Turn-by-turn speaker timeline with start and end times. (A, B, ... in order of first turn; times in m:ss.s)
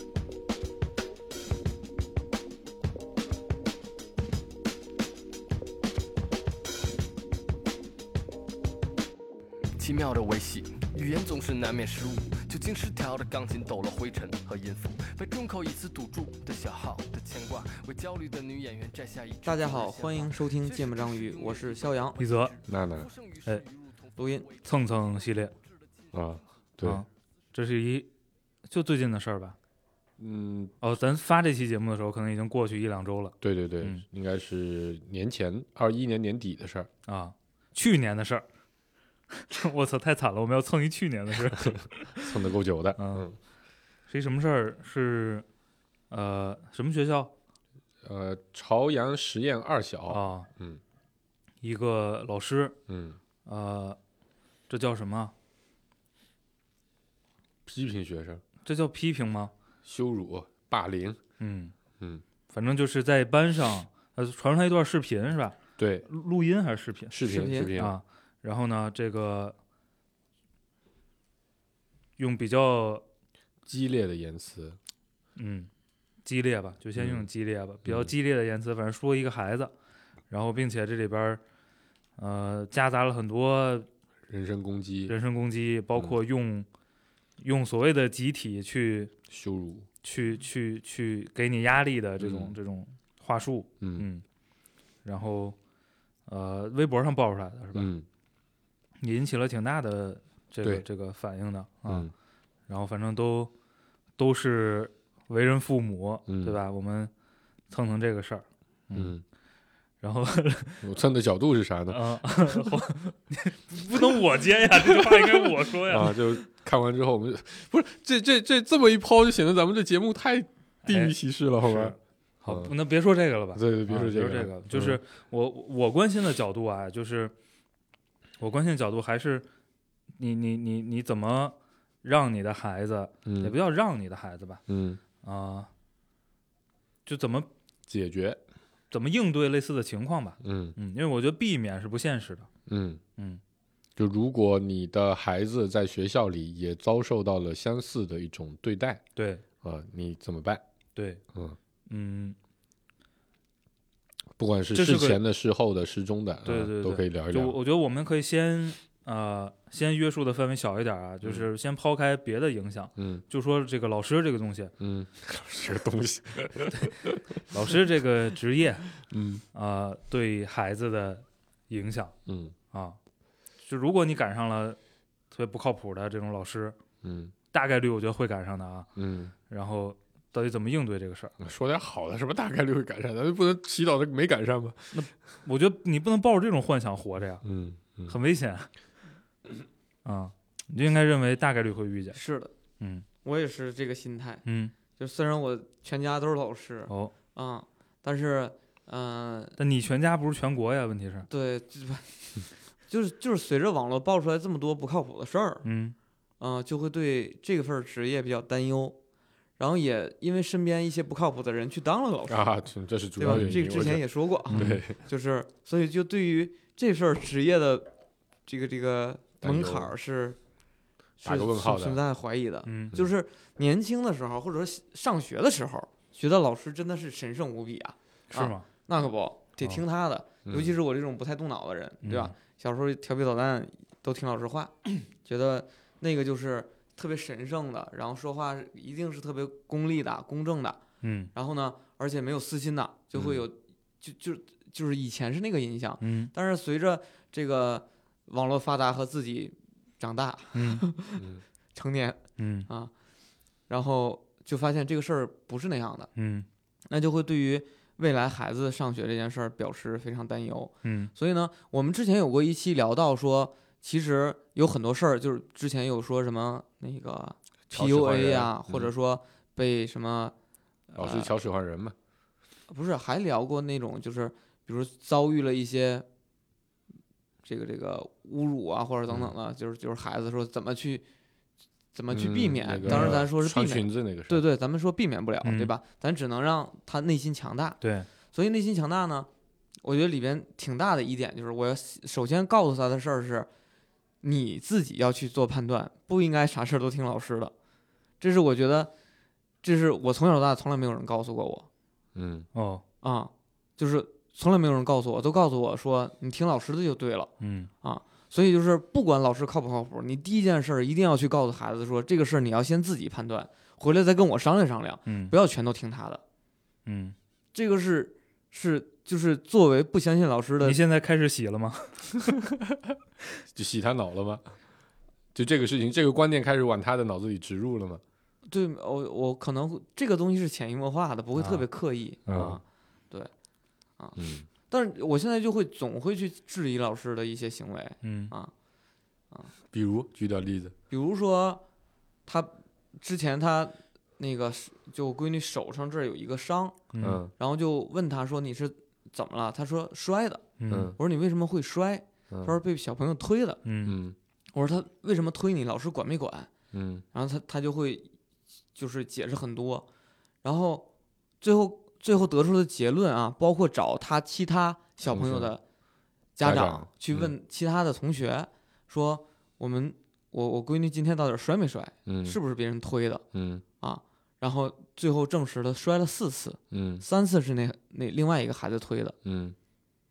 0:09.8-0:26.5 A
0:19.4-0:22.2 B
0:22.2-0:22.5 C
0:22.6-0:23.1 D
0:24.2-0:24.5 B
0:24.6-0:25.5 C
0:26.1-0:27.0 D
0:26.8-0:28.1 C
0:28.7-0:29.6 C
0:30.2-0:30.7 D
0:30.8-0:34.0 C
0:33.4-0:36.9 D
0:37.0-0:38.4 C
0:39.3-0:42.3 C
0:42.2-0:43.4 D
0:43.0-0:43.3 C
0:44.1-0:45.4 C
0:46.1-0:47.3 C
0:48.0-0:50.8 D
0:50.1-0:50.5 C
0:51.6-0:52.8 C
0:52.9-0:53.2 D
0:53.4-0:54.0 C
0:54.7-0:55.3 C
0:57.6-0:58.4 D
0:58.6-0:59.5 C
0:59.8-1:01.2 D
1:01.4-1:01.7 C
1:02.5-1:05.6 C
1:05.8-1:06.1 D
1:06.1-1:07.2 C
1:07.1-1:07.9 D
1:07.3-1:07.7 B
1:07.7-1:09.5 C
1:12.2-1:13.0 C
1:13.6-1:14.8 D
1:15.4-1:15.7 C
1:16.2-1:19.7 C
1:17.0-1:17.3 D
1:17.8-1:18.1 D
1:20.3-1:21.4 C
1:22.2-1:23.9 C
1:24.3-1:25.1 D
1:25.1-1:26.6 C
1:27.4-1:29.1 C
1:29.3-1:29.9 D
1:30.0-1:34.2 C
1:32.2-1:32.5 D
1:33.8-1:34.0 D
1:35.0-1:35.6 C
1:36.3-1:37.9 C
1:37.7-1:38.0 D
1:39.0-1:42.1 C
1:42.7-1:43.5 C
1:44.2-1:47.1 C
1:46.3-1:46.6 D
1:47.7-1:49.1 C
1:48.9-1:49.2 D
1:50.0-1:50.9 C
1:50.8-1:52.0 D
1:51.9-1:56.3 C
1:54.7-2:02.7 D
2:00.8-2:07.3 C
2:03.5-2:05.0 D
2:08.4-2:09.4 C
2:10.2-2:14.6 C
2:13.2-2:13.6 D
2:14.7-2:15.0 D
2:15.2-2:15.7 C
2:17.0-2:17.5 C
2:17.9-2:18.4 D
2:18.9-2:22.5 C
2:20.4-2:20.8 D
2:22.7-2:23.0 D
2:24.0-2:29.0 D
2:29.2-2:29.4 C
2:29.6-2:30.6 D
2:31.0-2:31.2 C
2:31.9-2:32.3 C
2:34.4-2:37.6 D
2:34.7-2:35.2 C
2:36.4-2:44.7 C
2:41.2-2:41.5 D
2:43.0-2:43.2 D
2:44.8-2:47.7 D
2:47.5-2:48.9 C
2:49.0-2:49.4 D
2:49.5-2:52.1 C
2:52.3-2:52.5 D
2:52.7-2:53.0 C
2:53.6-2:54.8 C
2:55.3-2:56.7 C
2:57.0-2:57.3 D
2:57.5-2:58.9 C
2:59.0-2:59.3 D
2:59.5-3:01.3 C
3:01.4-3:04.9 D
3:04.9-3:07.4 C
3:07.4-3:08.2 D
3:08.1-3:08.7 C
3:10.0-3:12.2 C
3:12.1-3:12.5 B
3:12.8-3:13.0 C
3:13.2-3:14.4 B
3:14.4-3:14.7 C
3:15.0-3:19.6 B
3:16.9-3:17.1 C
3:19.6-3:21.3 C
3:21.3-3:25.6 B
3:25.6-3:25.9 C
3:26.4-3:29.0 B
3:29.6-3:32.5 B
3:32.3-3:35.0 D
3:33.2-3:37.9 B
3:33.3-3:33.5 C
3:34.5-3:34.8 C
3:38.4-3:40.4 B
3:39.4-3:39.9 D
3:41.2-3:42.0 D
3:41.2-4:00.8 B
3:42.6-3:42.9 C
3:48.3-3:48.6 C
3:50.4-3:50.7 D
3:52.0-3:52.3 C
4:01.0-4:01.3 C
4:01.3-4:12.9 B
4:03.1-4:03.4 D
4:06.0-4:06.3 C
4:10.5-4:10.8 C
4:12.4-4:12.7 C
4:13.7-4:16.1 B
4:16.2-4:16.5 C
4:16.9-4:30.3 B
4:20.8-4:21.1 C
4:27.7-4:28.9 D
4:30.9-4:31.3 B
4:31.0-4:31.9 D
4:32.7-4:36.0 B
4:37.4-4:41.0 B
4:41.9-4:47.8 B
4:42.1-4:44.4 D
4:42.8-4:43.2 C
4:45.4-4:45.7 C
4:47.8-4:48.1 C
4:48.3-4:49.3 B
4:49.8-4:53.5 B
4:54.2-4:57.5 B
4:58.2-4:58.9 B
4:59.6-5:01.7 B
5:02.1-5:02.5 D
5:02.5-5:02.8 C
5:03.0-5:07.3 B
5:07.4-5:07.7 C
5:07.8-5:16.2 B
5:15.1-5:15.3 C
5:16.8-5:17.1 C
5:17.5-5:20.8 B
5:20.6-5:22.3 C
5:23.5-5:24.4 D
5:25.3-5:28.0 D
5:28.5-5:32.6 B
5:31.4-5:31.6 C
5:32.3-5:32.6 C
5:32.3-5:32.6 D
5:34.0-5:38.5 B
5:34.2-5:34.4 D
5:38.0-5:38.3 C
5:39.7-5:40.7 D
5:40.9-5:41.6 B
5:42.3-5:46.8 B
5:46.9-5:47.2 C
5:47.0-5:47.3 D
5:47.4-5:50.4 B
5:50.6-5:51.0 C
5:50.7-5:51.0 D
5:51.0-5:53.6 B
5:52.3-5:52.6 D
5:53.6-5:54.0 C
5:53.8-5:54.2 D
5:54.5-5:56.5 B
5:56.7-5:57.0 D
5:57.1-5:58.1 B
5:58.7-5:59.8 B
6:00.4-6:00.8 B
6:01.4-6:05.6 B
6:05.1-6:05.5 D
6:06.4-6:13.2 B
6:06.4-6:07.3 D
6:12.1-6:12.4 D
6:13.3-6:13.6 D
6:13.8-6:19.2 B
6:16.7-6:17.0 D
6:19.2-6:19.6 D